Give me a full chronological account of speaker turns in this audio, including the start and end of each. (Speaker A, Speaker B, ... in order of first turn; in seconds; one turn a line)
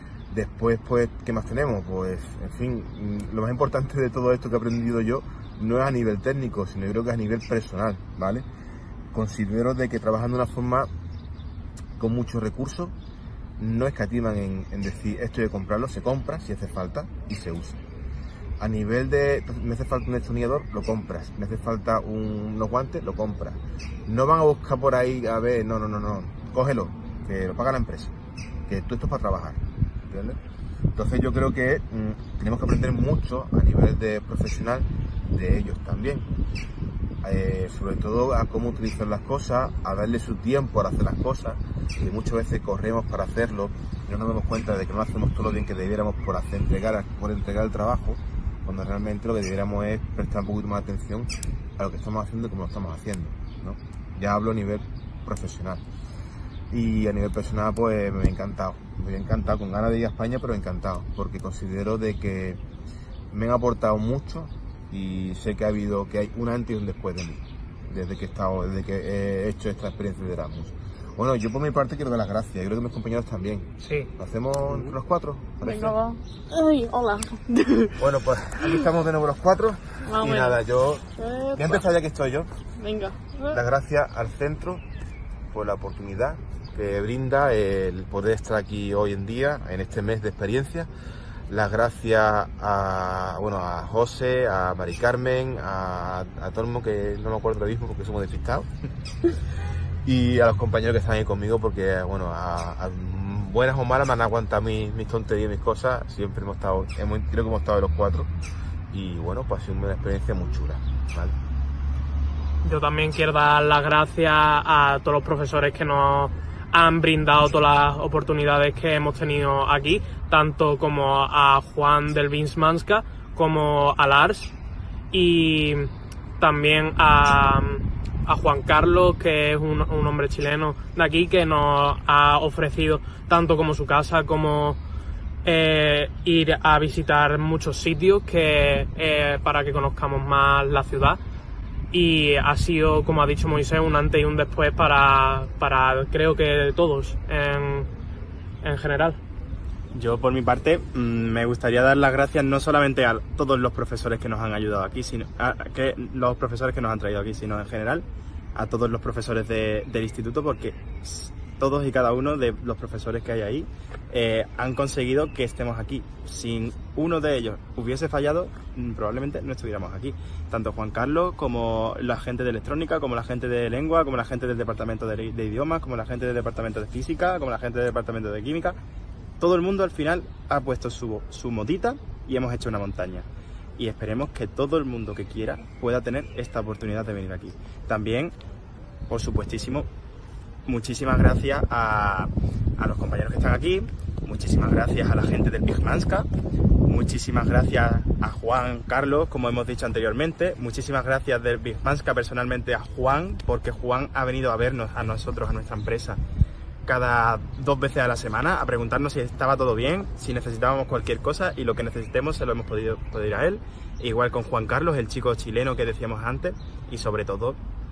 Speaker A: 0.3-8.4
Speaker A: 9.1-10.9
Speaker A: 12.0-12.9
Speaker A: 13.6-17.8
Speaker A: 18.6-28.1
Speaker A: 28.7-30.4
Speaker A: 30.9-36.3
Speaker A: 37.2-55.8
Speaker A: 56.7-62.6
Speaker A: 63.3-76.0
Speaker B: 73.8-74.1
Speaker C: 75.6-78.0
Speaker A: 78.0-81.0
Speaker C: 80.0-80.6
Speaker C: 81.2-81.8
Speaker A: 81.6-82.5
Speaker C: 82.8-83.6
Speaker A: 83.5-84.8
Speaker A: 85.5-90.9
Speaker A: 91.5-98.7
Speaker A: 100.0-108.3
Speaker A: 108.9-111.3
Speaker B: 112.6-124.5
Speaker B: 125.1-134.8
Speaker B: 135.4-141.2
Speaker B: 141.9-147.9
Speaker B: 148.6-149.2
Speaker D: 149.9-178.8
Speaker D: 179.4-183.3
Speaker D: 183.8-188.3
Speaker D: 189.1-189.9
Speaker D: 190.7-196.3
Speaker D: 196.9-206.2
Speaker D: 206.9-217.6